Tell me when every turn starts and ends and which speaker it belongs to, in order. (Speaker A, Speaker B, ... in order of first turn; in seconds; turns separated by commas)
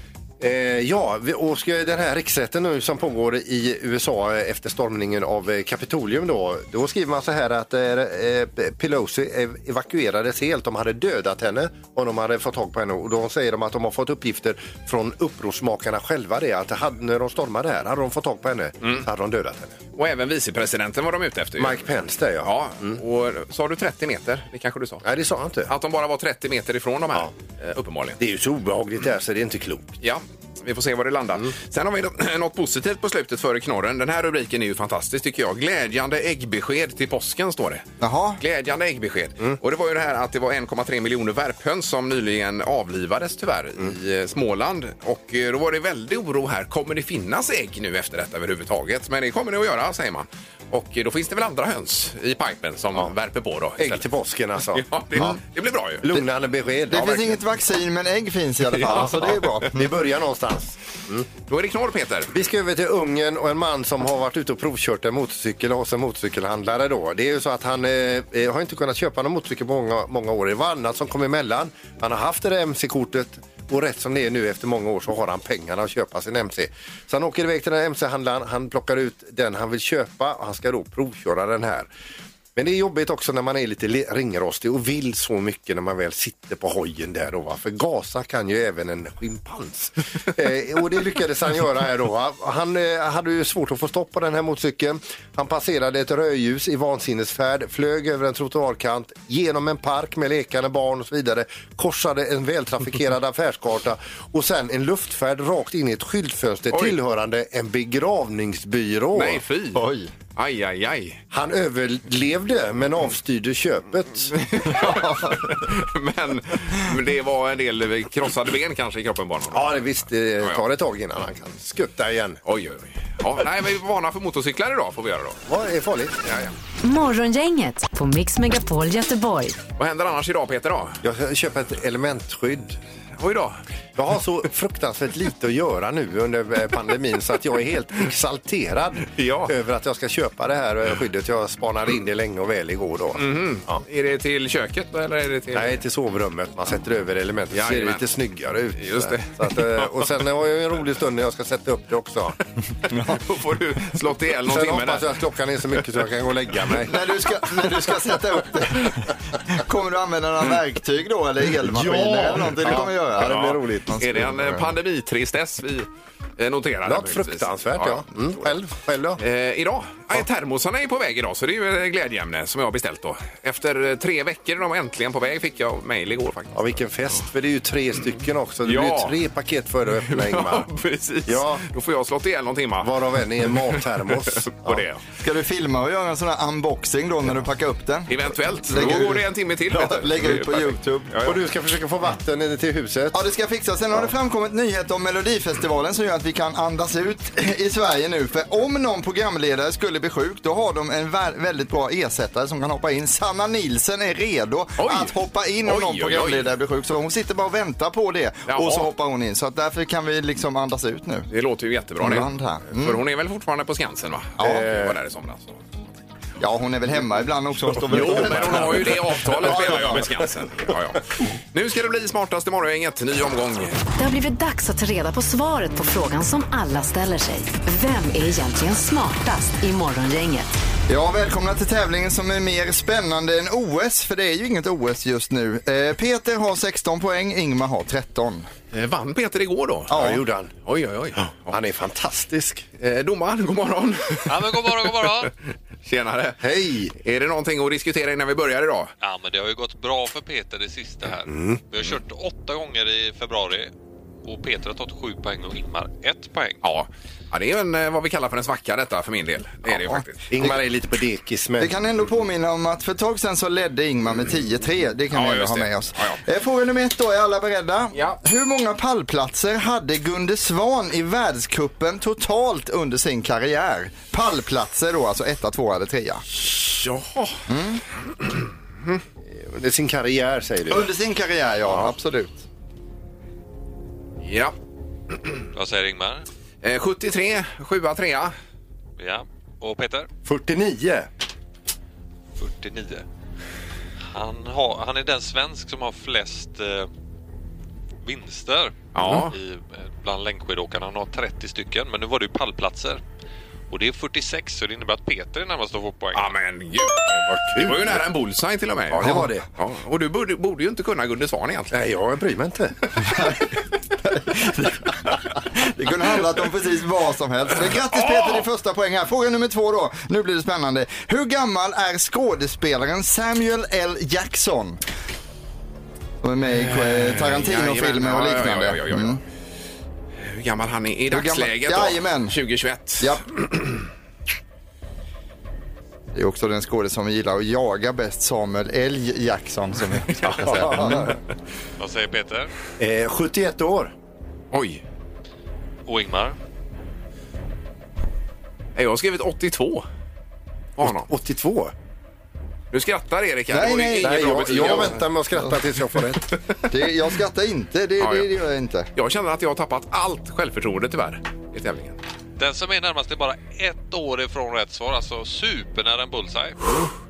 Speaker A: 0.4-19.8, Speaker B: 19.9-21.9, Speaker A: 21.6-23.0, Speaker B: 22.4-25.1, Speaker A: 25.0-25.7, Speaker B: 25.7-28.2, Speaker A: 28.2-29.9, Speaker B: 30.0-37.9, Speaker C: 38.0-38.4, Speaker B: 38.4-54.0, Speaker A: 53.8-55.3, Speaker B: 54.7-56.0, Speaker A: 56.0-57.4, Speaker C: 56.9-59.9, Speaker B: 58.8-59.5, Speaker A: 58.8-61.3, Speaker B: 61.5-62.3, Speaker A: 62.3-81.9, Speaker A: 82.6-109.4, Speaker B: 106.7-107.0, Speaker B: 109.2-111.2, Speaker C: 109.8-110.1, Speaker A: 111.3-114.3, Speaker B: 114.3-119.8, Speaker C: 114.8-115.5, Speaker A: 119.5-122.4, Speaker B: 122.5-125.4, Speaker A: 125.5-126.2, Speaker B: 126.2-126.5, Speaker D: 126.8-129.6, Speaker B: 129.8-131.0, Speaker A: 131.0-132.8, Speaker B: 133.2-133.6, Speaker A: 134.0-143.8, Speaker B: 139.2-139.5, Speaker B: 143.2-145.8, Speaker A: 145.5-152.4, Speaker B: 147.5-148.0, Speaker B: 148.8-149.9, Speaker C: 152.9-153.2, Speaker B: 153.1-155.1, Speaker A: 154.5-157.0, Speaker C: 156.9-164.7, Speaker A: 161.6-164.0, Speaker B: 163.2-168.6, Speaker A: 166.8-169.2, Speaker B: 169.2-176.8, Speaker A: 176.5-180.7, Speaker B: 178.7-179.2, Speaker B: 180.0-183.8, Speaker A: 181.3-181.6, Speaker A: 182.8-184.8, Speaker B: 184.4-185.0, Speaker C: 185.2-188.1, Speaker B: 188.1-191.4, Speaker C: 188.7-191.1, Speaker A: 191.2-193.2, Speaker C: 193.1-211.3, Speaker B: 204.8-205.1, Speaker B: 205.7-206.5, Speaker B: 208.5-208.9, Speaker B: 211.3-215.6, Speaker C: 212.0-213.0, Speaker C: 214.4-214.7, Speaker A: 214.4-215.0, Speaker C: 216.4-220.0, Speaker B: 217.9-221.0, Speaker A: 218.1-218.5, Speaker A: 219.4-220.0, Speaker B: 221.5-223.8, Speaker D: 224.0-230.5, Speaker C: 230.9-238.5, Speaker B: 238.7-240.1, Speaker C: 239.9-240.2, Speaker A: 239.9-240.5, Speaker B: 240.7-241.6, Speaker A: 241.5-242.7, Speaker B: 242.8-245.3, Speaker E: 244.3-245.3, Speaker B: 245.8-246.4, Speaker A: 246.4-246.9, Speaker B: 246.9-248.9, Speaker E: 249.0-253.7, Speaker A: 251.3-251.6, Speaker E: 254.2-256.6, Speaker B: 256.6-260.4, Speaker C: 259.9-260.6, Speaker A: 260.3-261.8, Speaker C: 261.6-276.3, Speaker B: 265.1-266.2, Speaker B: 267.9-268.2, Speaker B: 276.4-277.4, Speaker C: 277.5-277.8, Speaker A: 279.2-280.9, Speaker C: 280.7-282.4, Speaker B: 284.2-284.6, Speaker E: 285.5-286.2, Speaker B: 286.6-288.3, Speaker E: 289.0-290.1, Speaker A: 290.2-291.1, Speaker E: 292.4-293.0, Speaker E: 294.1-296.9, Speaker E: 298.0-303.0, Speaker B: 298.9-299.4, Speaker E: 303.7-306.3, Speaker B: 306.1-311.7, Speaker A: 307.3-308.0, Speaker A: 308.9-309.5, Speaker A: 311.7-312.9, Speaker C: 314.1-324.8, Speaker B: 318.1-318.4, Speaker C: 326.2-329.2, Speaker B: 326.5-329.2, Speaker B: 330.2-333.8, Speaker C: 331.1-332.4, Speaker C: 336.1-341.1, Speaker A: 340.4-341.1, Speaker E: 341.8-342.5, Speaker A: 342.8-343.9, Speaker B: 344.5-344.8, Speaker E: 345.9-346.4, Speaker B: 348.8-349.9, Speaker B: 350.8-351.1, Speaker A: 350.8-351.7, Speaker B: 352.7-355.1, Speaker C: 353.5-355.6, Speaker A: 354.0-356.3, Speaker C: 356.7-358.9, Speaker B: 358.0-358.3, Speaker B: 359.0-362.0, Speaker E: 362.4-366.6